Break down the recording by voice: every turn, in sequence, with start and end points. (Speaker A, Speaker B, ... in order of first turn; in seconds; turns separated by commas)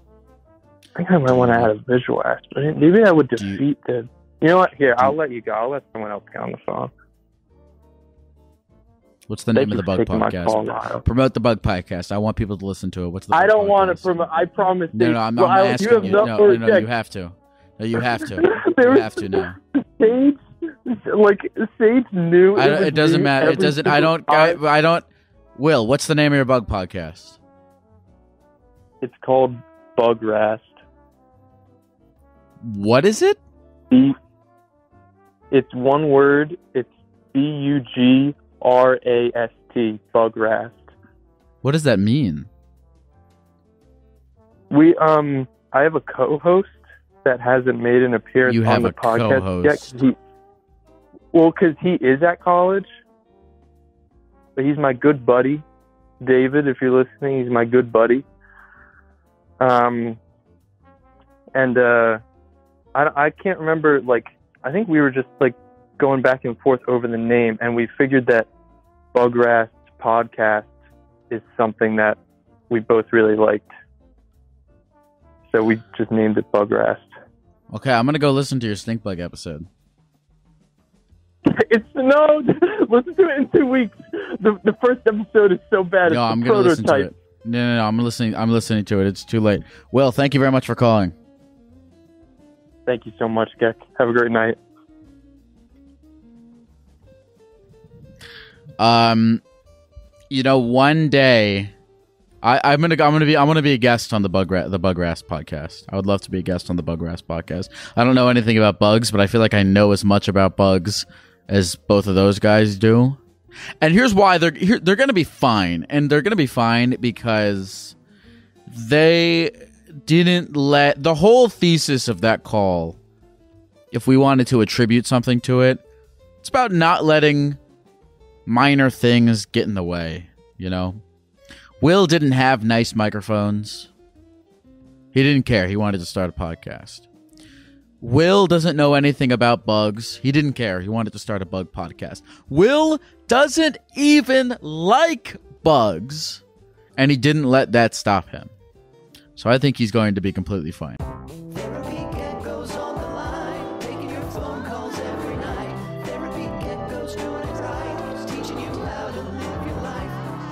Speaker A: 0.9-6.9, Speaker B: 1.2-1.7, Speaker B: 3.4-3.6, Speaker B: 9.3-14.1, Speaker A: 9.5-11.0, Speaker A: 13.3-16.9, Speaker B: 14.9-19.6, Speaker A: 18.4-24.6, Speaker B: 22.5-25.0, Speaker B: 25.6-27.4, Speaker A: 29.0-30.8, Speaker B: 32.6-33.4, Speaker A: 33.9-34.1, Speaker A: 35.5-40.9, Speaker B: 41.6-42.5, Speaker A: 44.7-50.2, Speaker B: 48.4-50.0, Speaker A: 51.3-52.9, Speaker A: 54.5-55.6, Speaker A: 56.2-58.2, Speaker A: 59.6-60.2, Speaker A: 61.5-62.2, Speaker A: 62.9-68.5, Speaker A: 69.1-70.7, Speaker A: 71.3-72.2, Speaker A: 72.7-73.7, Speaker A: 75.5-77.1, Speaker B: 77.7-79.7, Speaker A: 81.5-87.1, Speaker B: 86.1-91.1, Speaker A: 92.8-94.6, Speaker B: 98.8-99.4, Speaker B: 100.3-101.7, Speaker B: 102.4-113.2, Speaker B: 113.8-117.9, Speaker B: 118.7-119.5, Speaker B: 120.0-123.0, Speaker B: 123.9-125.8, Speaker B: 126.4-127.6, Speaker B: 128.4-131.0, Speaker B: 131.8-133.9, Speaker B: 135.1-137.1, Speaker B: 138.0-146.4, Speaker B: 147.0-148.5, Speaker B: 149.3-151.0, Speaker B: 151.8-160.1